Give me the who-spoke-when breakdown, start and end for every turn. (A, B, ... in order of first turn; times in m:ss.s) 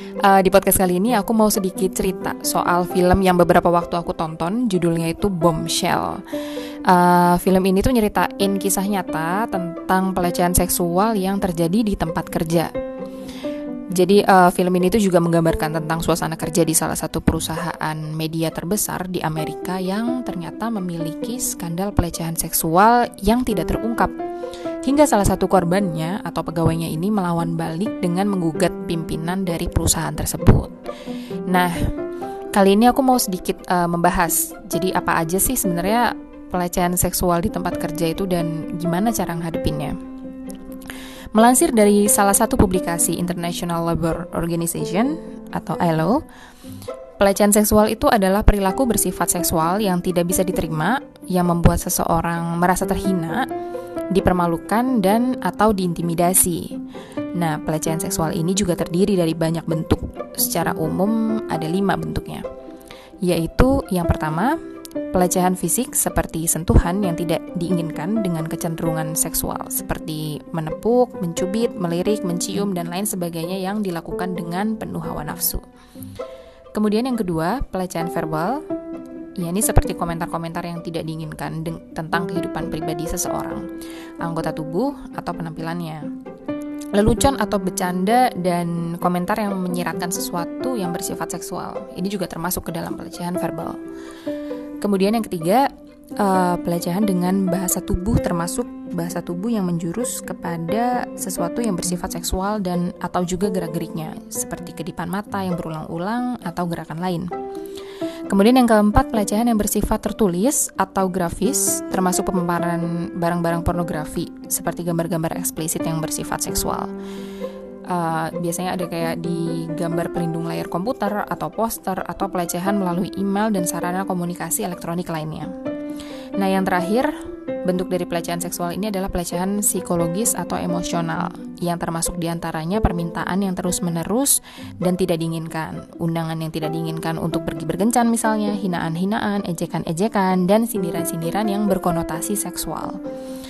0:00.2-0:06.2 A
0:06.8-0:12.7 A
0:13.9-0:24.1 A
0:24.8-0:30.7 A
0:31.5-0:31.9 A
0:32.5-0:40.0 A
0:41.3-0:46.2 A
0:47.2-0:53.5 A
0:54.1-0:56.8 A
0:57.4-1:02.5 A
1:03.2-1:04.6 A
1:05.1-1:15.6 A
1:16.7-1:18.6 A
1:19.4-1:23.7 A
1:24.2-1:26.1 A
1:26.9-1:33.8 A
1:34.8-1:47.3 A
1:48.3-1:56.9 A
1:57.9-2:05.5 A
2:06.4-2:23.0 A